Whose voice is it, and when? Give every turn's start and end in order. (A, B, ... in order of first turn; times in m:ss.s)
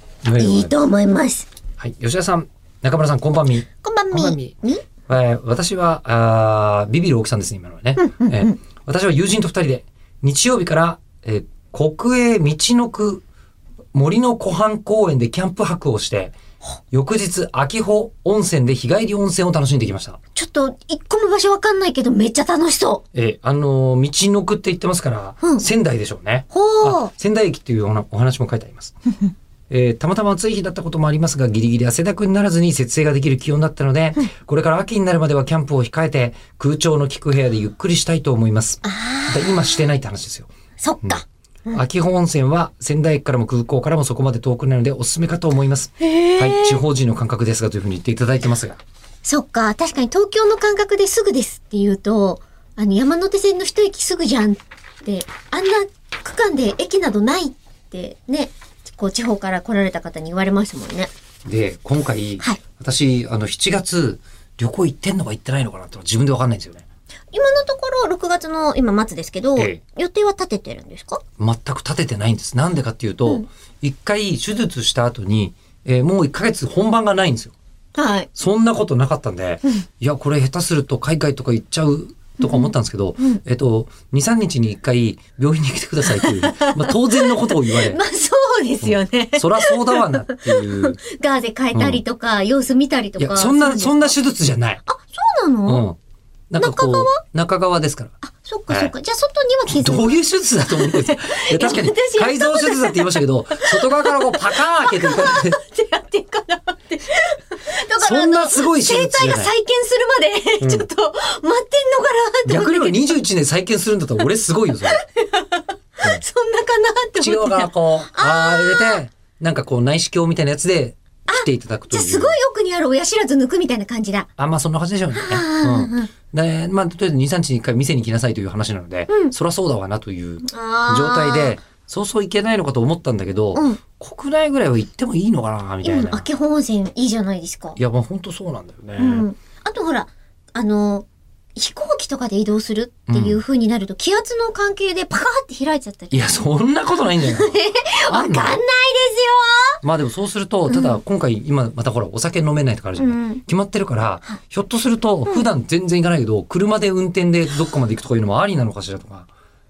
0:00.2-0:00.7 A
0:00.4-0:01.5 B
0:01.8-0:04.5 A
0:03.8-0:04.8 B
0:05.1-0:13.2 A
0:08.0-0:08.6 B
0:13.9-0:16.4 A
0:16.9-0:20.2 A
0:20.4-0:23.0 B
0:23.1-0:28.9 A
0:26.5-0:27.1 B
0:29.7-0:40.5 A
0:38.8-0:39.6 B
0:40.8-0:41.8 B
0:41.7-0:48.8 A
0:46.0-0:46.8 B
0:49.2-1:01.1 B
1:01.4-1:06.8 A
1:07.3-1:11.2 B
1:11.4-1:17.5 A
1:18.0-1:18.3 B
1:18.3-1:28.0 A
1:22.4-1:23.4 B
1:26.0-1:34.1 B
1:28.8-1:31.0 A
1:31.7-1:32.0 A
1:33.2-1:34.8 A
1:34.8-1:35.8 B
1:35.7-1:36.0 A
1:36.5-1:38.1 A
1:36.6-1:37.2 B
1:38.2-1:53.2 B
1:39.7-1:45.6 A
1:48.0-1:49.5 A
1:50.6-1:50.9 A
1:52.4-1:55.0 A
1:54.8-1:59.0 B
1:57.2-2:02.4 A
2:01.3-2:04.3 B
2:04.4-2:16.2 A
2:05.2-2:06.1 B
2:09.1-2:09.3 B
2:10.4-2:11.6 B
2:13.5-2:13.8 B
2:15.8-2:17.8 B
2:17.8-2:19.2 A
2:19.0-2:26.4 B
2:23.1-2:23.4 A
2:26.1-2:28.6 A
2:27.2-2:29.8 B
2:29.8-2:39.3 A
2:30.7-2:31.0 B
2:33.0-2:33.4 B